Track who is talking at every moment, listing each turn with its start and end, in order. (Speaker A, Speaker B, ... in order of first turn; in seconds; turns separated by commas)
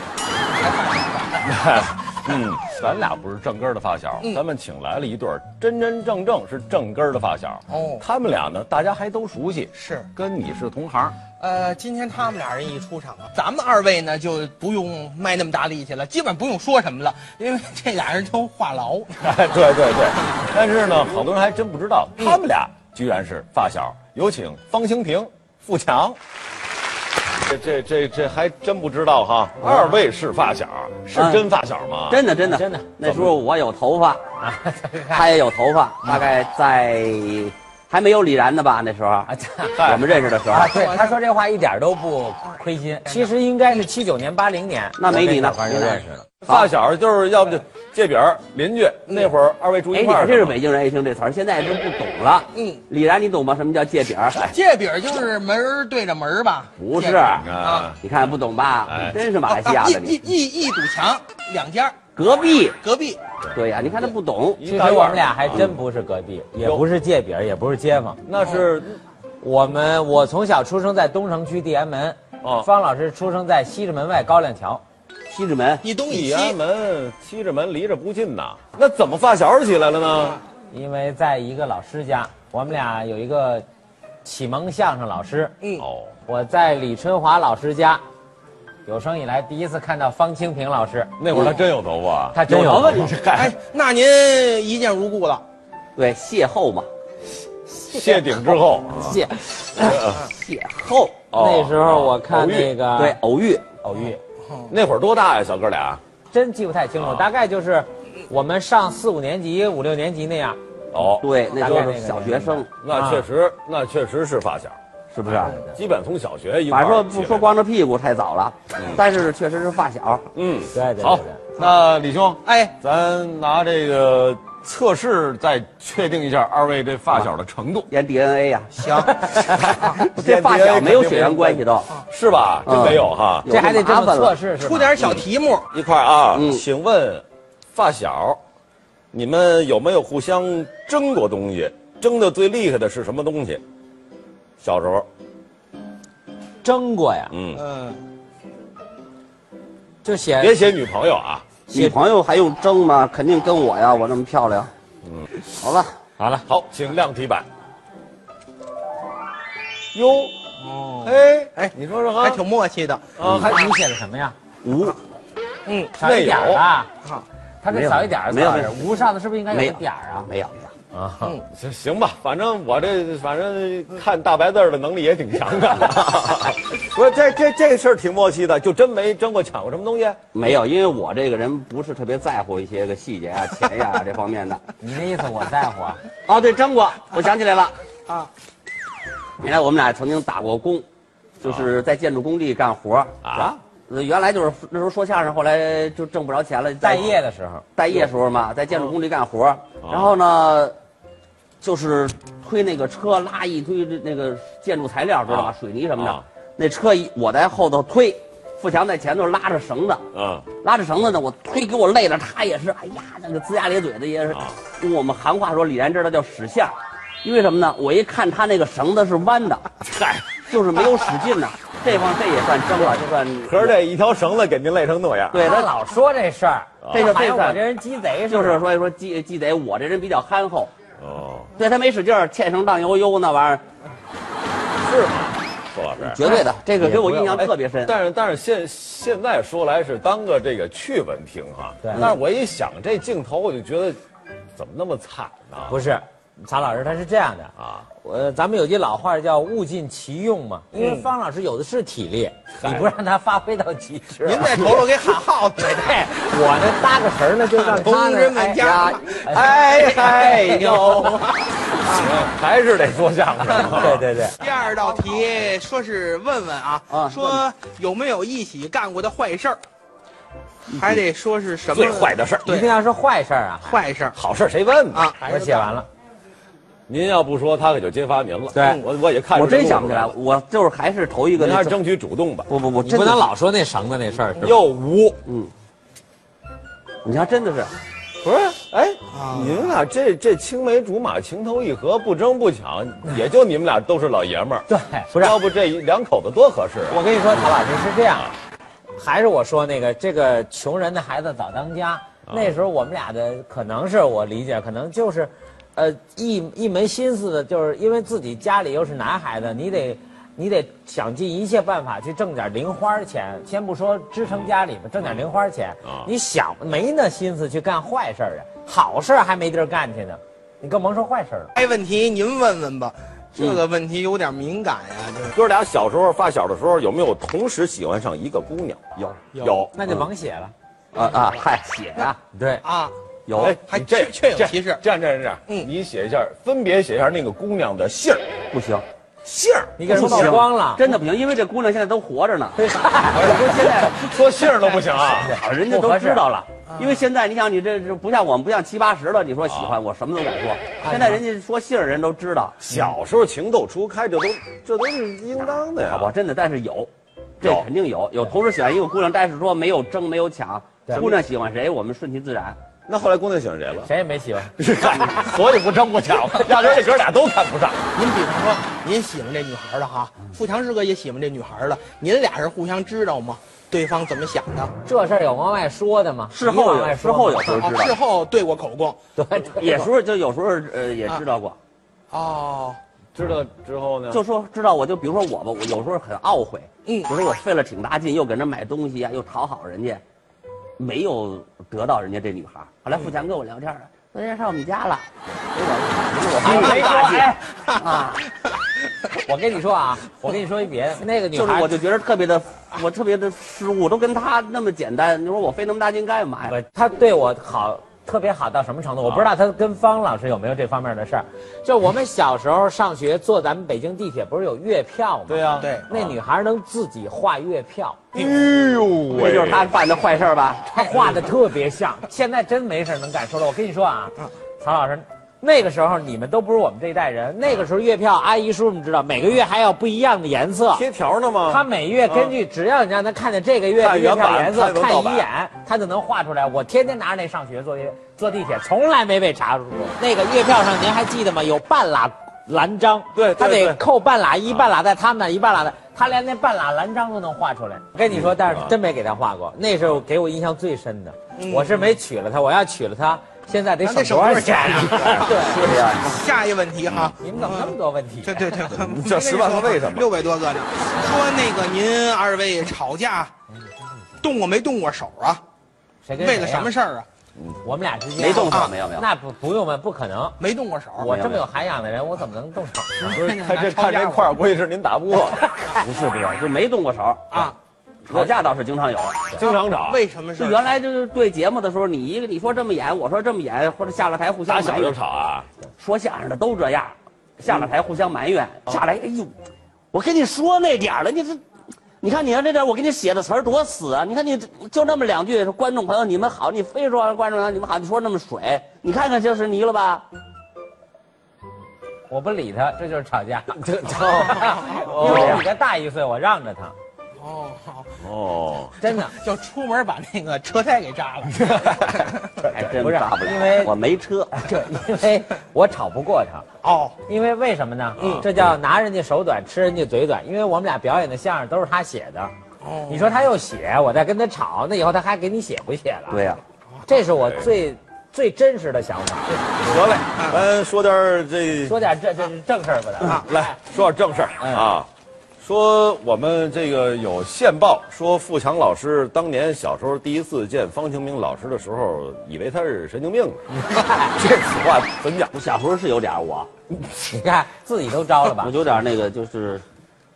Speaker A: 0.5-1.6, Speaker B: 1.4-11.2, Speaker A: 7.7-8.0, Speaker A: 9.7-10.1, Speaker A: 11.4-19.2, Speaker B: 19.2-26.2, Speaker B: 27.4-32.2, Speaker C: 29.6-29.9, Speaker C: 31.1-31.5, Speaker C: 32.1-34.2, Speaker D: 32.5-32.9, Speaker B: 33.0-33.4, Speaker D: 34.4-35.3, Speaker C: 35.1-40.8, Speaker D: 39.3-39.8, Speaker B: 39.8-40.1, Speaker D: 40.5-46.2, Speaker A: 40.7-41.1, Speaker C: 45.0-46.7, Speaker B: 46.5-50.6, Speaker C: 49.9-54.4, Speaker A: 52.6-52.8, Speaker A: 54.5-58.0, Speaker C: 56.8-57.5, Speaker B: 57.2-58.3, Speaker C: 58.0-60.2, Speaker B: 58.9-59.2, Speaker A: 59.4-62.0, Speaker C: 62.2-62.8, Speaker A: 62.8-63.2, Speaker C: 63.5-64.6, Speaker B: 64.6-65.8, Speaker D: 64.6-68.2, Speaker B: 68.3-69.0, Speaker D: 69.4-74.8, Speaker B: 72.4-72.7, Speaker C: 75.3-75.9, Speaker A: 75.8-76.6, Speaker B: 76.0-80.4, Speaker D: 80.7-83.7, Speaker D: 84.2-85.5, Speaker B: 85.8-86.1, Speaker D: 86.3-88.0, Speaker D: 88.9-91.5, Speaker B: 91.2-93.5, Speaker D: 92.3-93.1, Speaker C: 92.5-93.2, Speaker A: 93.3-95.4, Speaker C: 96.0-96.9, Speaker D: 97.8-100.0, Speaker B: 97.9-99.2, Speaker B: 99.8-100.3, Speaker C: 99.9-101.2, Speaker B: 101.3-102.8, Speaker D: 101.3-103.2, Speaker C: 103.0-103.7, Speaker D: 103.8-104.2, Speaker B: 104.7-106.0, Speaker D: 106.3-110.6, Speaker B: 107.0-107.3, Speaker B: 110.9-111.3, Speaker C: 111.2-112.7, Speaker D: 111.5-113.2, Speaker B: 112.8-117.5, Speaker C: 115.1-115.6, Speaker C: 116.7-120.3, Speaker B: 120.3-127.9, Speaker D: 120.7-121.4, Speaker A: 122.5-122.7, Speaker C: 127.9-131.9, Speaker A: 128.8-129.1, Speaker D: 129.1-129.6, Speaker B: 129.5-133.5, Speaker C: 132.7-134.3, Speaker D: 133.5-135.1, Speaker A: 134.6-135.7, Speaker B: 135.7-138.4, Speaker C: 136.3-136.7, Speaker B: 139.1-143.6, Speaker B: 144.6-145.1, Speaker D: 146.6-147.3, Speaker B: 147.3-147.6, Speaker A: 147.6-148.0, Speaker D: 150.0-150.6, Speaker B: 150.4-151.5, Speaker D: 151.7-152.0, Speaker C: 151.7-154.7, Speaker C: 155.6-155.9, Speaker D: 156.2-156.4, Speaker B: 156.5-157.5, Speaker B: 159.9-160.3, Speaker A: 160.6-163.1, Speaker B: 161.0-162.4, Speaker B: 163.2-163.8, Speaker C: 163.2-163.5, Speaker D: 163.5-164.3, Speaker C: 164.6-165.0, Speaker A: 165.7-165.9, Speaker D: 165.9-166.9, Speaker B: 166.0-166.7, Speaker D: 167.6-170.2, Speaker C: 167.7-170.7, Speaker D: 170.9-171.4, Speaker B: 171.5-180.5, Speaker C: 180.3-184.6, Speaker D: 184.8-186.0, Speaker C: 186.3-187.8, Speaker C: 189.4-190.8, Speaker C: 191.4-197.2, Speaker B: 193.2-193.6, Speaker D: 196.8-197.7, Speaker C: 197.8-200.8, Speaker B: 199.8-200.1, Speaker C: 201.6-210.1, Speaker B: 205.3-206.2, Speaker B: 210.1-210.5, Speaker C: 210.6-223.8, Speaker B: 214.3-214.6, Speaker B: 219.8-220.3, Speaker B: 222.8-225.5, Speaker C: 225.3-225.7, Speaker D: 225.4-228.7, Speaker B: 226.8-227.2, Speaker C: 226.9-227.6, Speaker C: 228.3-230.7, Speaker B: 231.0-231.5, Speaker C: 231.6-233.6, Speaker B: 234.8-244.0, Speaker C: 236.0-237.9, Speaker D: 241.8-242.1, Speaker B: 244.6-245.8, Speaker D: 245.7-254.8, Speaker B: 247.6-247.9, Speaker A: 250.8-251.1, Speaker B: 252.6-252.9, Speaker A: 254.2-256.0, Speaker D: 255.6-258.7, Speaker A: 257.5-262.2, Speaker C: 258.6-259.2, Speaker D: 259.2-259.5, Speaker B: 259.3-264.1, Speaker D: 263.6-264.4, Speaker A: 264.4-269.6, Speaker C: 266.9-267.4, Speaker A: 270.7-272.7, Speaker B: 271.7-272.6, Speaker D: 272.5-273.8, Speaker A: 273.6-274.2, Speaker B: 274.1-275.1, Speaker A: 274.9-275.8, Speaker D: 275.2-275.9, Speaker B: 276.9-280.2, Speaker D: 278.5-278.8, Speaker A: 278.6-278.9, Speaker C: 279.3-281.8, Speaker B: 281.4-282.5, Speaker C: 282.5-283.3, Speaker D: 282.8-284.5, Speaker B: 284.4-285.2, Speaker C: 285.3-285.5, Speaker C: 287.0-287.7, Speaker B: 288.2-297.0, Speaker A: 289.1-289.7, Speaker D: 294.7-295.4, Speaker D: 296.9-298.3, Speaker D: 299.0-321.5, Speaker B: 302.3-302.5, Speaker B: 315.9-316.1, Speaker A: 321.6-325.4, Speaker C: 323.4-323.6, Speaker B: 325.3-329.7, Speaker A: 329.3-329.7, Speaker D: 329.7-330.5, Speaker C: 330.9-332.2, Speaker D: 332.3-332.6, Speaker A: 332.6-334.8, Speaker C: 333.3-333.6, Speaker B: 333.4-338.4, Speaker C: 338.5-338.9, Speaker B: 339.2-340.4, Speaker D: 339.8-340.8, Speaker C: 339.9-344.1, Speaker D: 342.6-343.5, Speaker B: 343.1-345.4, Speaker C: 344.7-352.7, Speaker D: 345.2-346.2, Speaker A: 346.7-347.0, Speaker B: 349.5-349.8, Speaker D: 350.8-351.2, Speaker B: 352.6-356.1, Speaker C: 355.8-362.6, Speaker B: 357.4-357.7, Speaker B: 362.9-363.9, Speaker D: 363.9-364.5, Speaker B: 364.6-367.9, Speaker A: 367.9-374.7, Speaker D: 374.9-377.5, Speaker C: 376.3-378.0, Speaker A: 377.5-379.0, Speaker D: 379.2-379.9, Speaker C: 379.5-381.6, Speaker A: 382.1-382.8, Speaker B: 383.1-384.2, Speaker C: 384.1-390.0, Speaker C: 390.8-397.3, Speaker D: 396.4-397.4, Speaker A: 396.5-397.9, Speaker C: 397.8-398.2, Speaker D: 399.2-401.7, Speaker C: 401.3-406.5, Speaker D: 406.5-418.1, Speaker B: 409.0-409.3, Speaker B: 415.3-416.2, Speaker A: 415.6-415.9, Speaker B: 418.1-419.7, Speaker A: 418.1-418.4, Speaker C: 419.1-421.1, Speaker D: 420.7-430.9, Speaker B: 430.7-432.3, Speaker D: 431.5-455.8, Speaker B: 433.8-435.3, Speaker B: 443.1-443.8, Speaker B: 448.1-448.7, Speaker A: 451.4-451.9, Speaker A: 453.8-463.3, Speaker C: 455.3-456.2, Speaker B: 456.9-457.2, Speaker D: 457.2-458.7, Speaker B: 458.7-460.1, Speaker A: 464.2-465.4, Speaker D: 466.1-466.7, Speaker A: 466.2-467.1, Speaker D: 467.6-470.4, Speaker C: 468.2-469.1, Speaker A: 470.4-471.1, Speaker D: 471.0-473.2, Speaker C: 471.0-471.4, Speaker A: 473.0-474.4, Speaker B: 473.0-475.5, Speaker C: 475.8-477.5, Speaker A: 477.3-477.6, Speaker C: 478.1-479.3, Speaker B: 479.4-480.0, Speaker A: 479.4-480.7, Speaker C: 480.4-485.0, Speaker B: 484.5-485.5, Speaker C: 485.8-489.3, Speaker C: 489.9-491.4, Speaker C: 492.0-500.1, Speaker D: 502.1-506.7, Speaker B: 503.5-505.5, Speaker A: 507.2-507.9, Speaker B: 508.0-508.8, Speaker D: 508.8-509.1, Speaker A: 508.9-512.4, Speaker B: 511.4-512.1, Speaker C: 512.4-514.4, Speaker D: 512.6-513.7, Speaker D: 514.3-516.5, Speaker A: 516.6-517.0, Speaker D: 517.1-522.3, Speaker B: 518.0-518.3, Speaker A: 522.6-523.1, Speaker D: 522.9-526.2, Speaker C: 526.1-526.4, Speaker D: 526.9-529.9, Speaker B: 527.1-527.5, Speaker B: 529.6-531.8, Speaker D: 531.6-533.5, Speaker B: 533.1-534.9, Speaker D: 534.4-534.7, Speaker B: 535.4-543.4, Speaker D: 543.7-544.1, Speaker B: 544.0-545.3, Speaker C: 545.3-546.5, Speaker D: 546.9-548.5, Speaker C: 548.4-549.6